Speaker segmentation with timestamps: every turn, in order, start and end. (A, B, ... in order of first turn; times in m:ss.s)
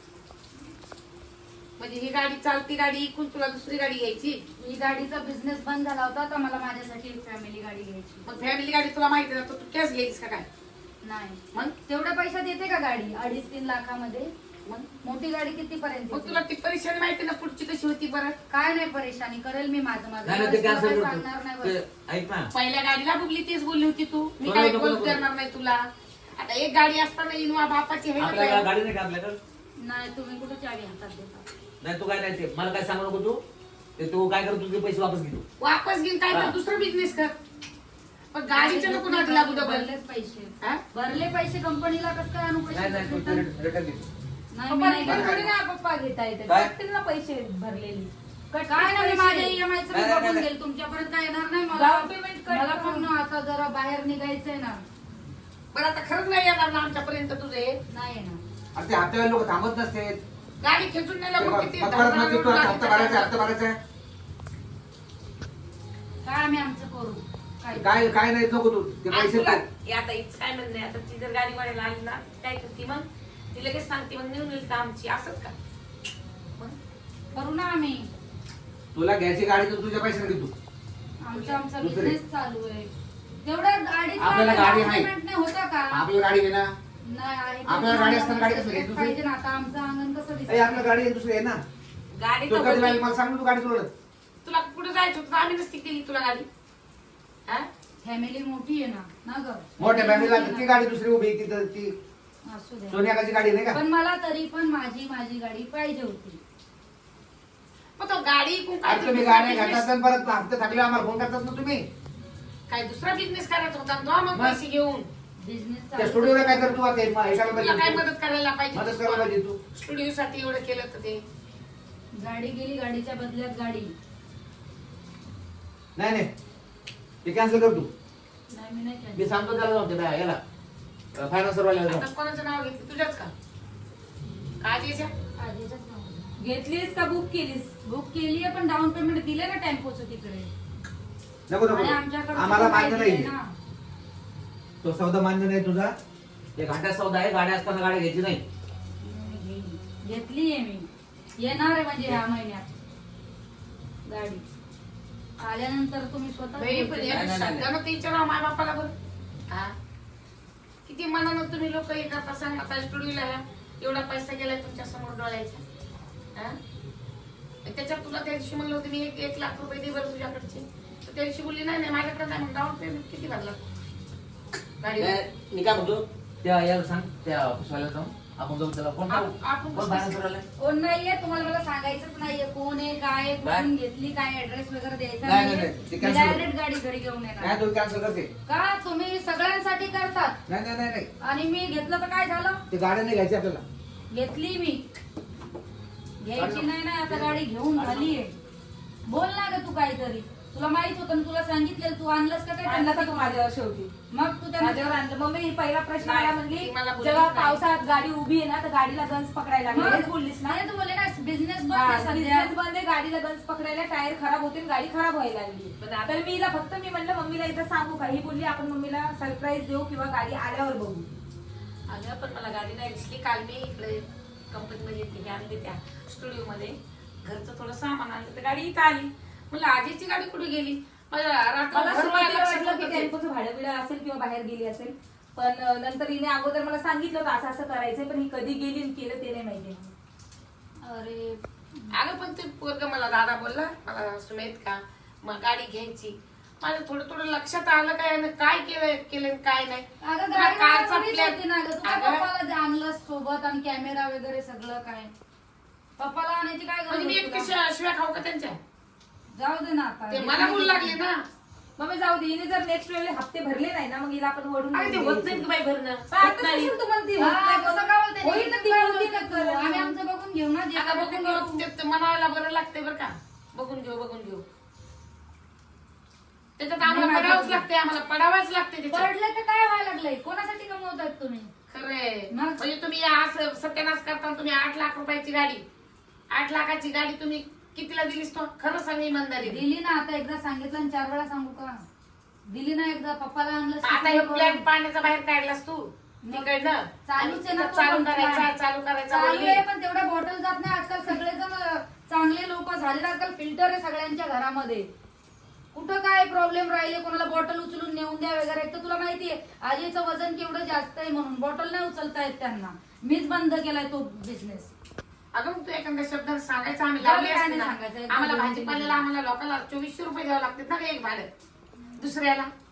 0:01.8-0:04.4 A
0:04.6-0:08.2 B
0:08.2-0:10.4 A
0:11.0-0:14.3 B
0:15.0-0:16.4 B
0:16.1-0:18.3 A
0:18.5-0:21.8 B
0:20.2-0:22.5 C
0:22.5-0:25.8 A
0:24.4-0:25.2 C
0:26.4-0:28.7 A
0:28.2-0:29.4 C
0:29.8-0:31.5 B
0:31.8-0:33.4 C
0:34.0-0:35.4 C
0:35.6-0:37.3 A
0:38.3-0:39.9 A
0:38.5-0:43.4 B
0:42.7-0:44.0 C
0:42.9-0:43.3 D
0:44.5-0:46.3 B
0:44.7-0:45.1 E
0:45.0-0:45.5 D
0:45.1-0:45.4 A
0:46.3-0:49.6 E
0:48.7-0:54.8 B
0:50.0-0:50.4 D
0:51.7-0:53.1 E
0:55.7-0:57.8 A
0:57.9-0:58.4 B
0:58.7-1:00.2 D
1:00.6-1:03.5 A
1:01.4-1:03.8 D
1:06.2-1:08.1 B
1:07.7-1:09.6 D
1:09.1-1:15.5 A
1:17.3-1:18.1 B
1:18.9-1:20.5 D
1:21.2-1:26.1 B
1:21.3-1:21.6 A
1:21.8-1:22.1 D
1:24.2-1:25.1 D
1:25.9-1:26.7 D
1:27.0-1:31.0 B
1:27.7-1:29.1 D
1:30.5-1:31.6 D
1:32.2-1:33.0 A
1:32.5-1:33.9 D
1:34.4-1:36.5 A
1:38.0-1:40.8 B
1:39.8-1:41.9 D
1:42.4-1:43.0 B
1:42.9-1:43.8 D
1:43.7-1:46.4 B
1:48.0-1:49.9 A
1:48.8-1:51.8 D
1:52.7-1:55.1 A
1:54.3-1:54.6 D
1:55.4-1:56.9 B
1:56.0-1:58.0 D
1:57.2-2:01.2 A
1:58.7-1:59.6 D
2:02.1-2:03.9 B
2:06.0-2:06.3 D
2:07.2-2:07.9 D
2:08.5-2:09.3 B
2:09.2-2:10.0 D
2:09.2-2:10.4 C
2:11.2-2:12.0 C
2:11.4-2:12.0 D
2:11.8-2:13.3 A
2:14.6-2:15.1 A
2:15.4-2:16.3 B
2:16.4-2:17.7 E
2:17.8-2:20.5 B
2:21.5-2:23.3 D
2:21.7-2:23.5 B
2:24.8-2:25.9 D
2:26.6-2:28.4 C
2:29.0-2:32.7 B
2:34.0-2:34.4 B
2:35.4-2:37.3 B
2:36.6-2:38.9 A
2:37.1-2:37.6 C
2:39.5-2:39.7 A
2:40.8-2:45.6 A
2:47.6-2:53.6 A
2:54.8-2:55.2 A
2:55.0-3:00.4 C
2:59.1-3:00.2 A
3:00.6-3:07.6 B
3:05.2-3:06.4 D
3:07.4-3:08.3 D
3:08.5-3:10.4 B
3:10.5-3:11.1 D
3:11.2-3:12.6 B
3:12.7-3:13.6 D
3:14.1-3:14.8 B
3:16.2-3:18.3 B
3:16.4-3:18.0 D
3:19.0-3:23.3 B
3:22.6-3:23.9 E
3:24.1-3:24.9 B
3:24.6-3:30.6 E
3:26.0-3:27.6 A
3:29.7-3:32.5 B
3:31.7-3:41.1 E
3:41.9-3:53.1 A
3:51.7-3:59.9 E
4:00.8-4:01.9 B
4:01.9-4:12.2 A
4:10.0-4:15.1 B
4:16.0-4:17.5 B
4:16.9-4:18.6 A
4:19.3-4:21.0 B
4:20.1-4:21.2 A
4:21.8-4:25.4 E
4:24.7-4:26.7 A
4:26.1-4:29.9 E
4:27.2-4:31.6 B
4:30.8-4:34.4 A
4:36.6-4:39.1 A
4:36.8-4:37.7 B
4:38.9-4:41.5 B
4:41.7-4:45.6 A
4:42.3-4:42.6 B
4:46.3-4:49.6 A
4:49.4-4:51.8 B
4:52.5-4:54.6 B
4:53.8-4:59.6 A
4:56.2-4:58.5 B
4:59.1-5:04.9 B
5:05.7-5:14.7 B
5:15.3-5:21.3 A
5:17.0-5:19.0 B
5:22.0-5:22.5 A